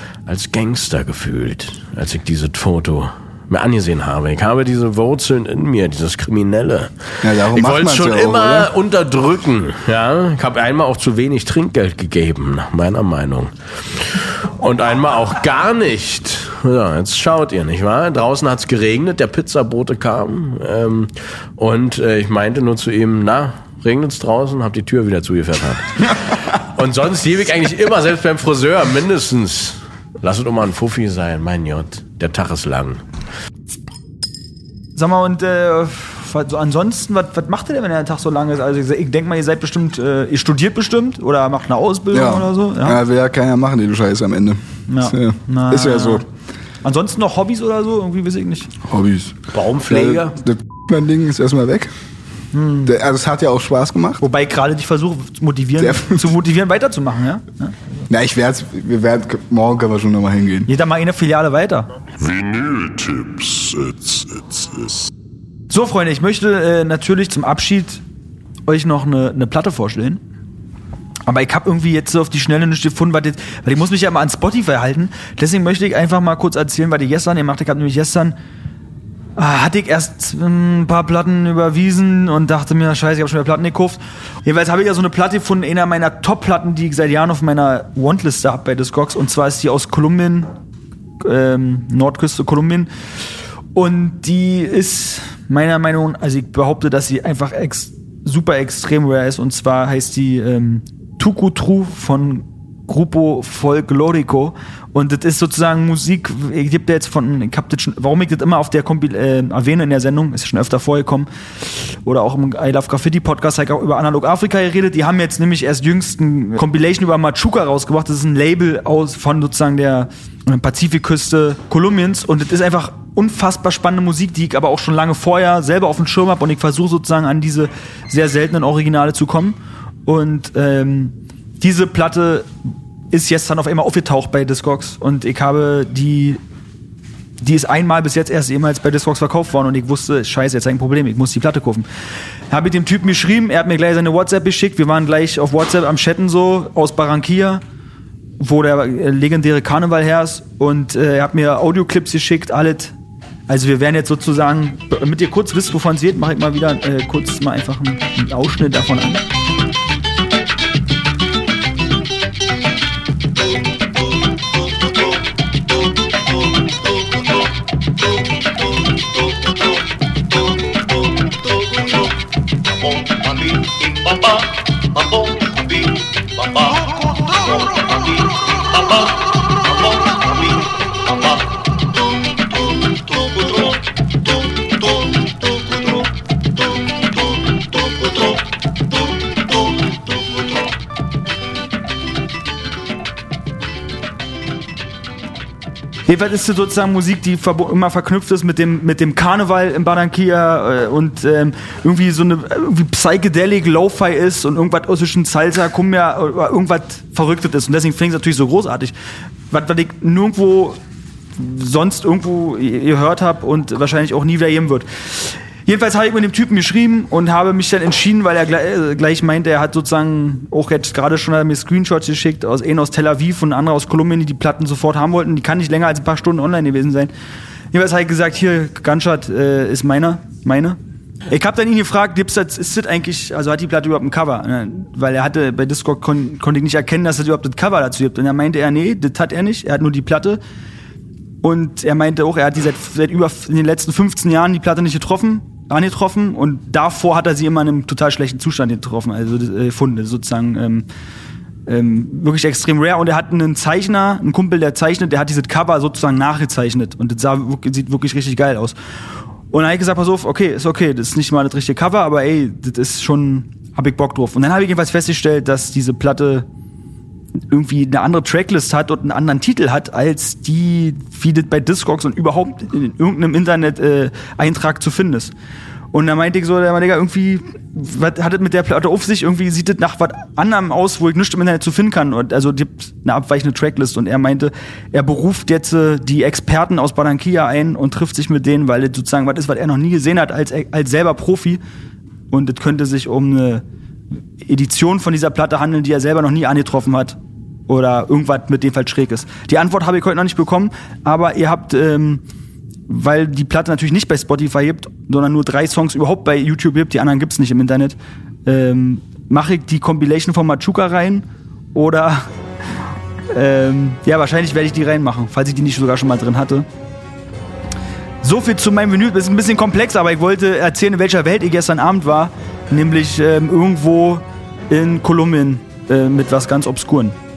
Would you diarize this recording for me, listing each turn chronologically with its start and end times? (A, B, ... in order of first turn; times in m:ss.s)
0:00.2-0:33.0 A
0:07.2-0:08.7 B
0:35.0-0:43.0 C
0:42.1-0:46.2 B
0:44.9-0:46.2 C
0:46.8-0:48.7 C
0:48.8-0:51.9 B
0:49.5-0:50.4 A
0:52.5-0:52.9 C
0:52.8-0:54.2 B
0:54.2-0:57.7 C
0:55.8-0:56.3 B
0:58.1-1:00.7 B
1:00.7-1:01.9 C
1:02.2-1:05.1 D
1:05.7-1:08.0 C
1:08.6-1:10.2 C
1:11.3-1:18.3 C
1:19.4-1:30.5 C
1:31.2-1:32.9 C
1:33.7-2:12.5 C
2:13.1-2:16.4 C
2:17.4-2:21.9 C
2:22.5-2:27.6 C
2:28.4-2:32.9 C
2:33.5-2:39.2 C
2:53.0-2:55.9 C
2:56.5-2:56.9 C
2:57.5-2:59.1 C
2:59.8-3:00.6 C
3:03.4-3:03.7 C
3:16.1-3:28.9 C
3:29.5-3:30.8 C
3:31.4-3:47.1 C
3:47.7-4:00.4 C
4:01.4-4:10.8 C
4:11.7-4:18.7 C
4:19.5-4:26.4 C
4:27.5-4:35.3 C
4:35.9-4:51.6 C
4:52.3-4:53.6 C
4:54.4-5:02.2 C
5:02.9-5:12.2 C
5:13.3-5:16.6 C
5:18.2-5:27.1 C